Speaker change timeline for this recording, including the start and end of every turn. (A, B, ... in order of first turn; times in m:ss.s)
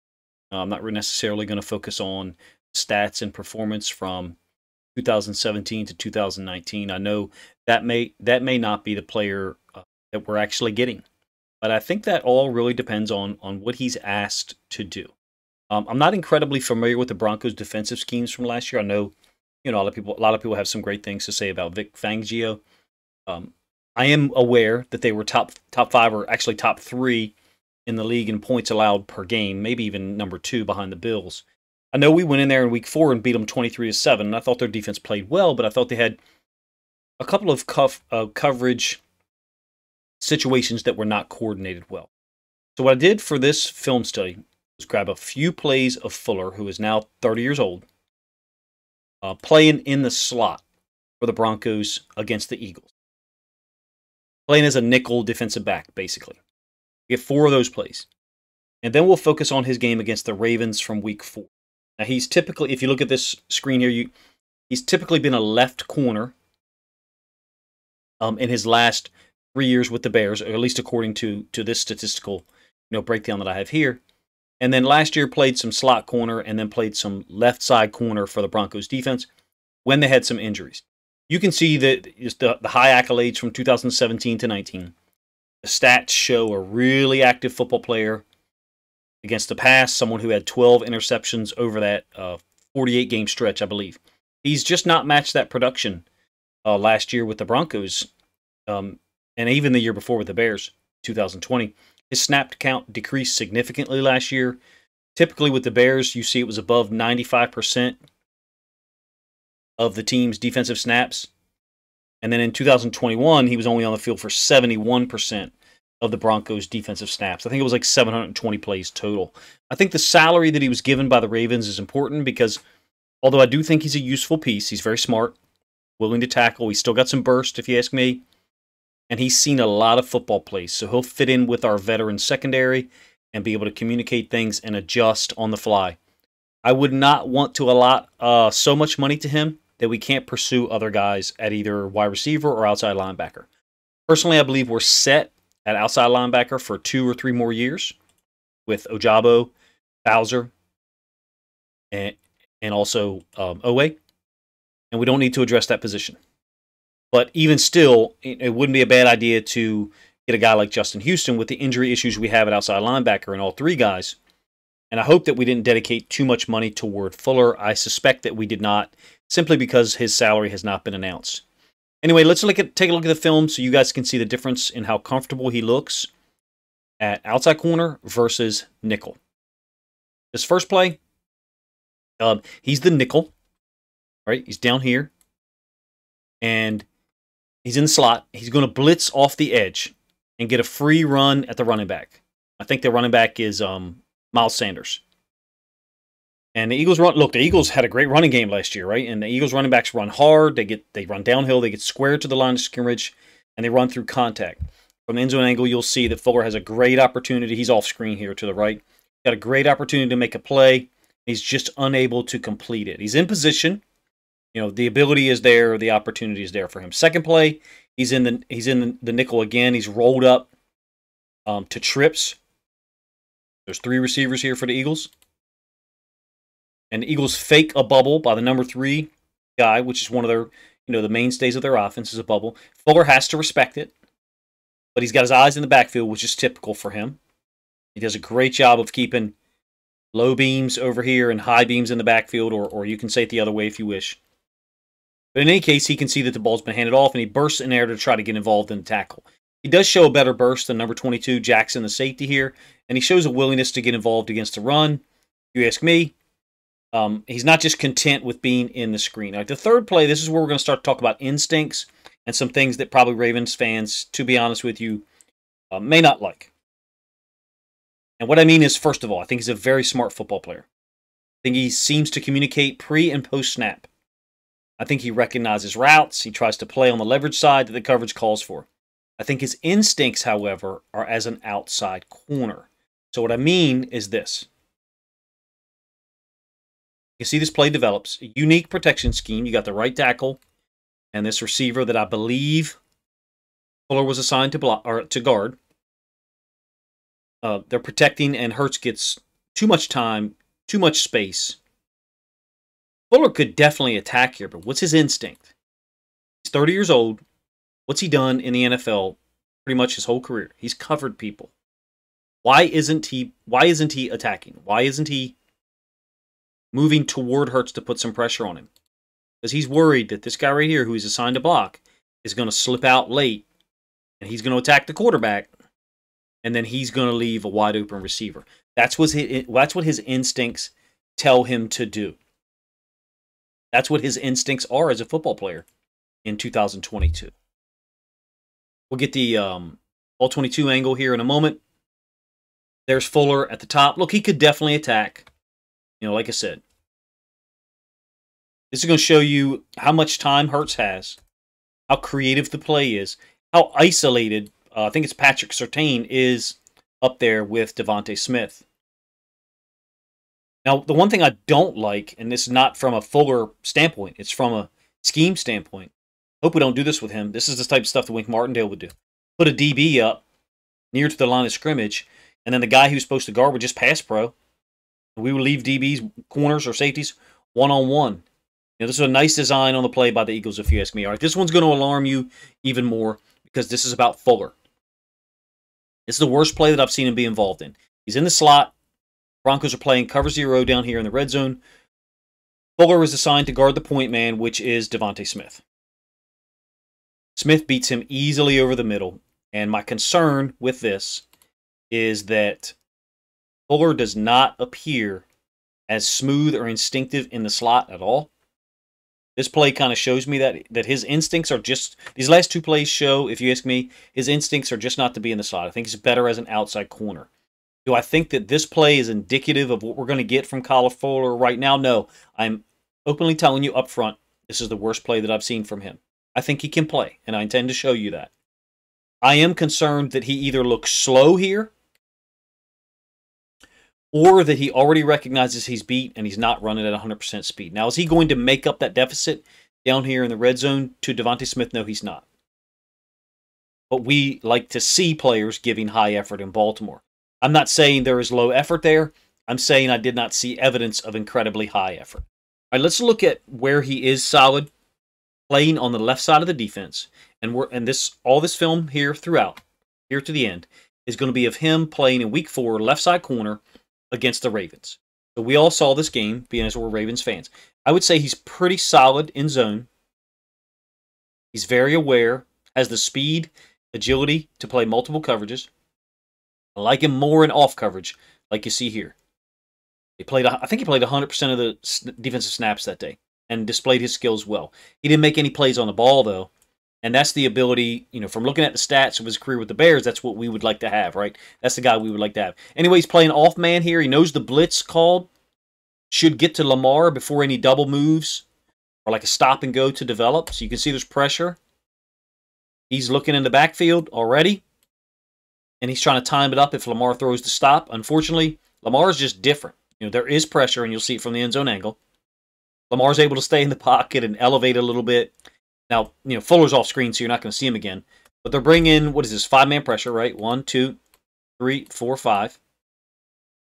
0:00.5-0:04.4 A
0:04.9-0:11.0 A
0:11.6-0:15.1 A
0:15.7-0:19.1 A
0:19.6-0:22.6 A
0:23.3-0:27.3 A
0:27.8-0:36.2 A
0:37.2-0:39.0 A
0:40.2-0:42.1 A
0:42.8-0:47.8 A
0:49.2-0:50.6 A
0:51.2-0:52.9 A
0:54.5-0:56.4 A
0:57.1-0:58.1 A
0:58.8-1:04.1 A
1:04.7-1:06.3 A
1:08.2-1:14.0 A
1:14.6-1:19.3 A
1:19.8-1:24.9 A
1:25.6-1:28.2 A
1:29.2-1:36.0 A
1:36.6-1:38.1 A
1:38.7-1:44.6 A
1:45.1-1:48.0 A
1:49.8-1:51.3 A
1:52.2-2:02.6 A
2:03.2-2:05.3 A
2:06.0-2:08.2 A
2:09.1-2:16.0 A
2:16.6-2:23.5 A
2:24.1-2:28.0 A
2:28.7-2:29.5 A
2:30.0-2:30.5 A
2:31.9-2:34.0 A
2:34.9-2:36.2 A
2:37.1-2:44.2 A
2:44.9-2:51.4 A
2:52.0-2:56.1 A
2:57.0-2:59.2 A
3:00.3-3:01.0 A
3:02.2-3:03.3 A
3:04.2-3:05.1 A
3:06.4-3:06.8 A
3:07.6-3:15.0 A
3:16.5-3:33.8 A
3:34.5-3:40.5 A
3:41.5-3:42.4 A
3:43.7-3:45.1 A
3:46.9-3:53.9 A
3:54.9-3:57.2 A
3:57.9-3:59.3 A
4:00.1-4:04.2 A
4:05.3-4:15.0 A
4:15.5-4:16.1 A
4:16.9-4:25.0 A
4:25.7-4:26.5 A
4:28.2-4:30.6 A
4:31.4-4:33.9 A
4:34.8-4:38.7 A
4:39.2-4:44.5 A
4:47.2-4:50.4 A
4:51.1-4:52.8 A
4:53.9-4:55.6 A
4:57.4-5:01.6 A
5:03.1-5:05.5 A
5:06.4-5:07.2 A
5:07.9-5:11.5 A
5:12.4-5:15.3 A
5:16.7-5:18.7 A
5:19.4-5:23.4 A
5:24.2-5:25.5 A
5:26.4-5:32.2 A
5:33.7-5:35.6 A
5:36.2-5:37.3 A
5:38.9-5:41.6 A
5:42.9-5:45.3 A
5:46.0-5:46.6 A
5:48.7-5:51.2 A
5:51.9-5:58.6 A
6:00.6-6:05.9 A
6:06.4-6:10.2 A
6:10.9-6:14.3 A
6:15.2-6:18.2 A
6:18.8-6:24.5 A
6:26.1-6:28.7 A
6:29.4-6:31.6 A
6:32.8-6:35.6 A
6:37.4-6:41.2 A
6:41.9-6:42.7 A
6:43.7-6:45.2 A
6:45.9-6:48.3 A
6:49.4-6:57.3 A
6:57.8-7:08.3 A
7:09.2-7:11.7 A
7:14.1-7:22.2 A
7:23.9-7:34.7 A
7:35.5-7:49.9 A
7:51.5-7:55.7 A
7:56.8-7:59.2 A
8:00.2-8:06.5 A
8:07.0-8:15.3 A
8:16.1-8:18.4 A
8:19.0-8:21.6 A
8:22.9-8:24.6 A
8:25.8-8:32.0 A
8:32.9-8:35.3 A
8:35.9-8:41.0 A
8:41.6-8:42.6 A